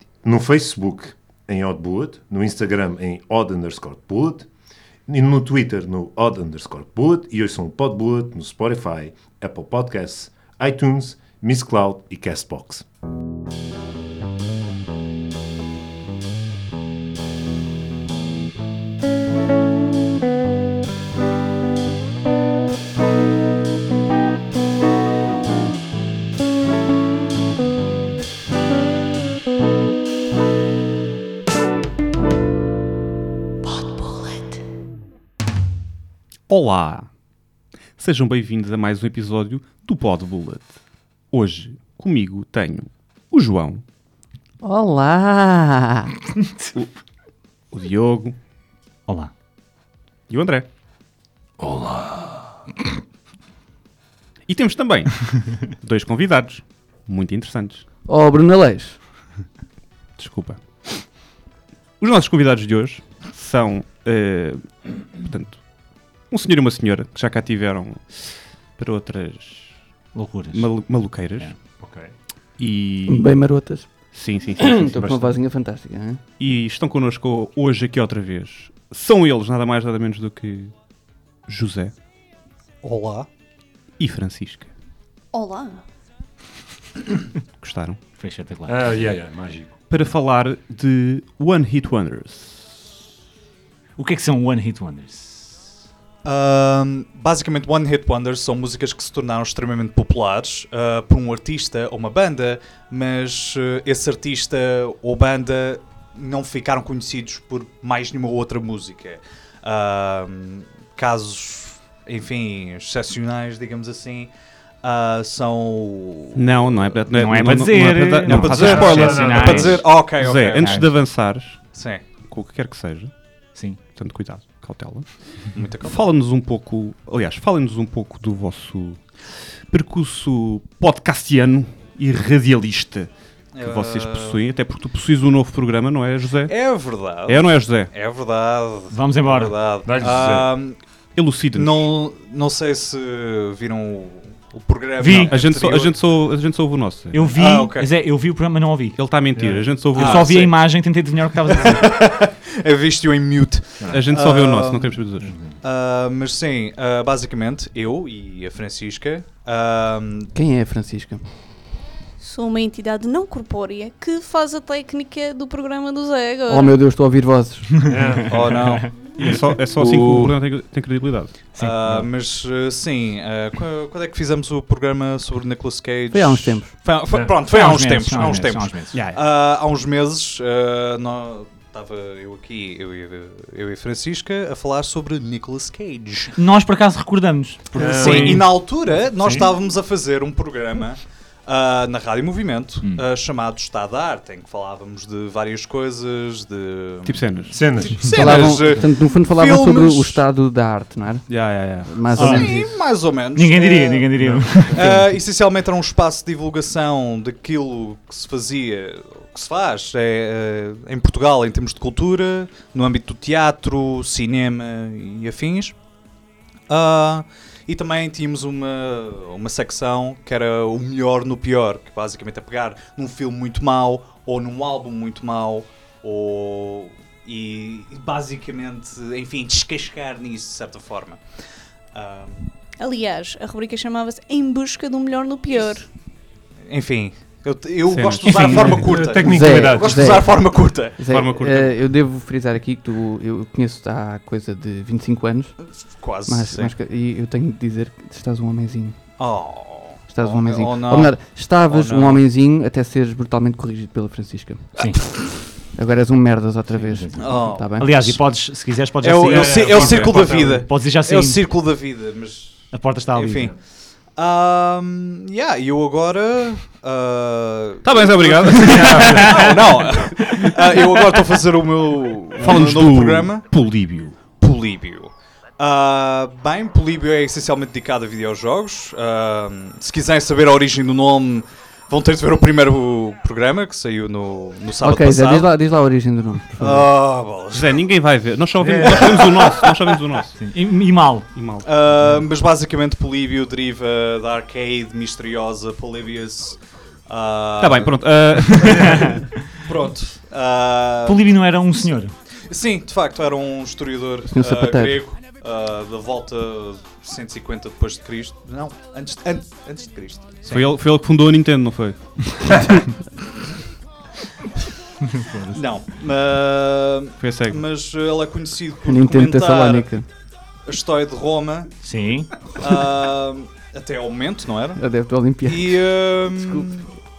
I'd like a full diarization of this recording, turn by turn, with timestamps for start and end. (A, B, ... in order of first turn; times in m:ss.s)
0:00.2-0:04.5 A
0:05.1-0:12.8 A
0:33.7-0:34.4 B
0:36.5-0:37.1 C
0:38.0-0:40.8 C
0:41.3-0:43.8 C
0:44.6-0:46.2 D
0:47.7-0:48.4 C
0:49.1-0:49.3 E
0:50.3-0:50.7 C
0:51.6-0:52.0 A
0:54.5-0:57.9 C
0:58.1-0:59.0 D
1:00.2-1:01.1 C
1:02.0-1:05.7 C
1:06.3-1:08.2 C
1:08.8-1:09.8 C
1:10.1-1:10.7 E
1:10.5-1:11.5 C
1:11.8-1:12.1 A
1:12.6-1:13.3 C
1:13.1-1:13.9 D
1:14.1-1:14.9 C
1:14.6-1:16.2 D
1:14.9-1:15.4 A
1:16.4-1:20.7 C
1:21.5-1:21.9 C
1:22.8-1:23.3 F
1:24.0-1:24.7 C
1:25.3-1:25.8 B
1:27.6-1:28.0 C
1:28.2-1:28.8 E
1:28.7-1:29.7 A
1:29.9-1:32.9 C
1:34.0-1:35.7 E
1:36.2-1:56.8 F
1:56.4-2:01.7 C
1:57.1-2:00.9 E
1:58.3-2:00.9 F
1:58.3-1:59.8 A
2:01.7-2:02.0 F
2:02.2-2:03.1 C
2:03.6-2:03.8 E
2:03.9-2:09.1 C
2:05.6-2:06.0 F
2:09.7-2:16.5 C
2:13.6-2:14.4 F
2:16.5-2:20.8 F
2:17.2-2:17.9 C
2:18.9-2:19.6 E
2:19.8-2:20.5 A
2:21.2-2:21.9 C
2:21.5-2:26.0 F
2:25.0-2:25.4 E
2:25.1-2:27.3 C
2:27.1-2:29.0 E
2:27.4-2:27.9 F
2:29.0-2:30.6 C
2:29.3-2:29.8 A
2:29.9-2:30.5 F
2:30.0-2:31.9 E
2:31.5-2:35.1 F
2:33.9-2:35.4 C
2:35.2-2:35.6 A
2:35.6-2:40.3 F
2:40.3-2:41.2 D
2:42.2-2:46.8 B
2:46.5-2:47.9 D
2:47.9-2:48.9 E
2:47.9-2:48.6 A
2:48.3-2:48.9 F
2:49.2-2:51.5 C
2:49.8-2:50.3 F
2:51.6-3:06.4 F
2:51.6-2:52.0 E
2:56.1-2:56.7 D
2:57.1-2:57.4 A
2:57.4-2:59.0 E
2:58.9-2:59.2 C
3:06.3-3:08.6 E
3:07.7-3:09.5 A
3:07.8-3:20.2 F
3:17.0-3:17.6 C
3:17.5-3:18.5 A
3:18.0-3:22.8 D
3:21.3-3:22.1 C
3:22.2-3:24.1 F
3:22.2-3:22.6 E
3:23.3-3:25.0 E
3:24.6-3:35.8 F
3:36.7-3:51.2 F
3:51.9-3:52.5 F
3:52.8-3:55.9 B
3:56.7-4:01.0 F
3:57.9-3:58.8 C
3:58.2-4:00.2 A
3:59.2-4:05.6 D
4:01.1-4:01.8 C
4:05.8-4:06.7 F
4:06.3-4:09.0 D
4:09.2-4:12.2 F
4:10.1-4:18.1 D
4:14.8-4:15.0 E
4:16.7-4:21.6 E
4:17.2-4:18.1 F
4:19.0-4:33.5 F
4:19.2-4:20.6 A
4:22.7-4:23.5 E
4:27.8-4:30.5 C
4:28.6-4:29.5 A
4:28.7-4:29.8 E
4:32.4-4:34.2 C
4:34.3-4:45.5 F
4:44.8-4:46.9 D
4:46.6-4:47.8 F
4:47.5-4:50.4 C
4:48.8-4:50.0 F
4:50.4-4:51.3 E
4:51.3-4:51.7 C
4:51.6-4:58.0 F
4:57.6-4:59.2 C
4:58.5-5:01.3 F
4:58.8-4:59.3 E
5:01.0-5:02.2 E
5:02.4-5:10.6 F
5:04.3-5:05.0 D
5:10.5-5:12.6 C
5:15.1-5:15.6 E
5:15.6-5:19.9 F
5:17.2-5:17.6 C
5:18.9-5:20.1 D
5:20.6-5:21.7 F
5:21.8-5:22.3 E
5:22.4-5:24.8 F
5:24.8-5:26.7 D
5:25.4-5:26.9 F